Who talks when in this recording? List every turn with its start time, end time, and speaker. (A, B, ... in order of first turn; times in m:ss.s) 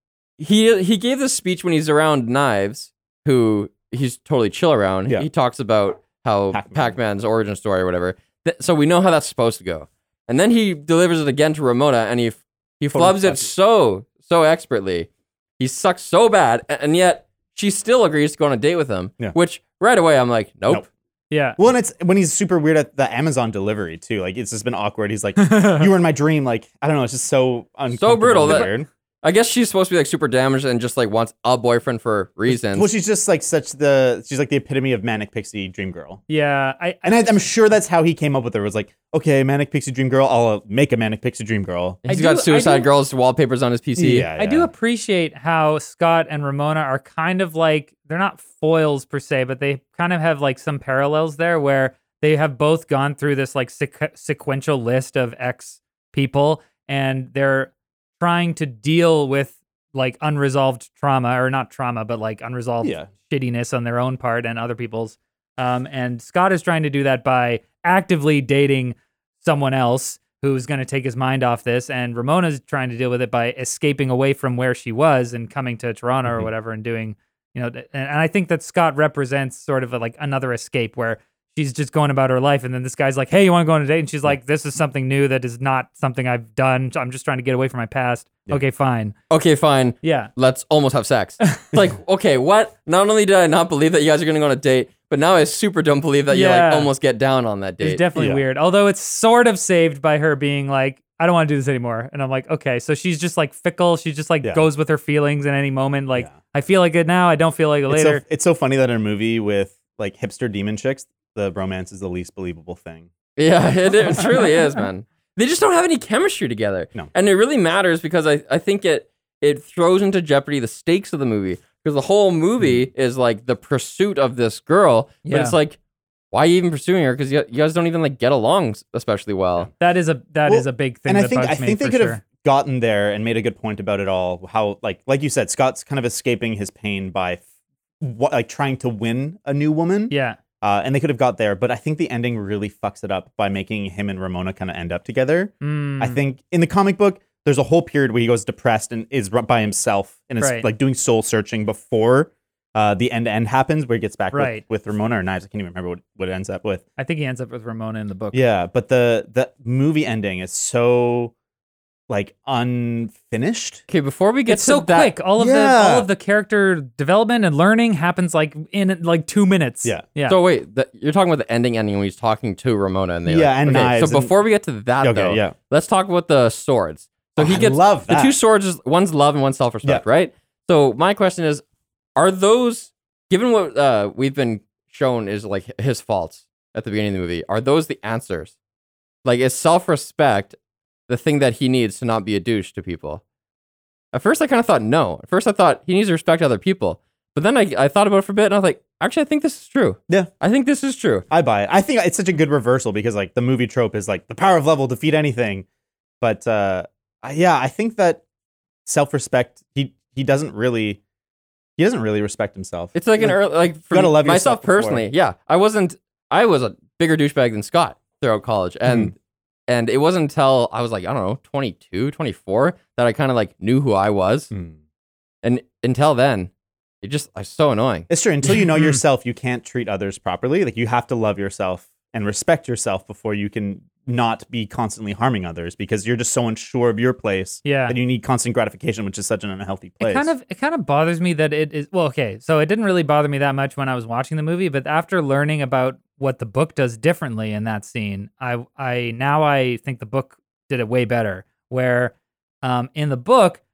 0:00.4-0:20.8 A
0:06.5-0:07.0 B
0:12.9-0:13.5 B
0:21.3-0:21.6 C
0:21.6-0:28.9 B
0:25.4-0:25.9 C
0:27.9-0:32.9 A
0:32.5-0:36.2 B
0:36.3-0:37.3 C
0:37.0-0:42.0 B
0:42.0-0:44.3 A
0:42.1-0:42.9 C
0:44.0-0:44.7 B
0:44.3-1:29.1 C
1:02.8-1:03.1 B
1:29.3-1:38.0 A
1:30.0-1:30.3 C
1:36.3-1:36.9 C
1:37.8-1:48.2 C
1:38.2-1:38.4 B
1:47.9-1:53.1 B
1:53.4-2:05.8 A
2:02.6-2:02.9 B
2:05.2-2:05.5 C
2:06.3-2:09.7 A
2:09.8-2:12.2 C
2:10.5-2:17.4 B
2:18.0-2:36.8 B
2:20.1-2:20.4 C
2:25.6-2:26.2 C
2:30.4-2:30.7 C
2:34.3-2:34.6 C
2:37.0-2:38.4 C
2:38.3-2:41.3 B
2:42.1-2:43.8 B
2:43.9-2:45.1 A
2:44.5-2:50.4 C
2:45.4-2:46.1 B
2:50.2-3:01.6 A
2:53.3-2:54.3 B
2:55.0-2:55.5 B
2:57.4-2:58.3 B
3:02.2-3:08.5 A
3:09.2-3:10.6 A
3:11.1-3:13.2 A
3:14.1-3:21.2 A
3:21.3-3:25.6 B
3:26.2-3:28.2 B
3:28.8-3:31.0 B
3:31.8-3:35.0 B
3:32.9-3:39.2 A
3:38.9-3:39.1 B
3:39.7-3:44.5 A
3:45.4-3:46.5 A
3:47.0-3:48.1 A
3:48.1-4:00.3 B
3:48.5-3:49.0 C
3:57.6-3:58.0 C
4:00.0-4:13.6 C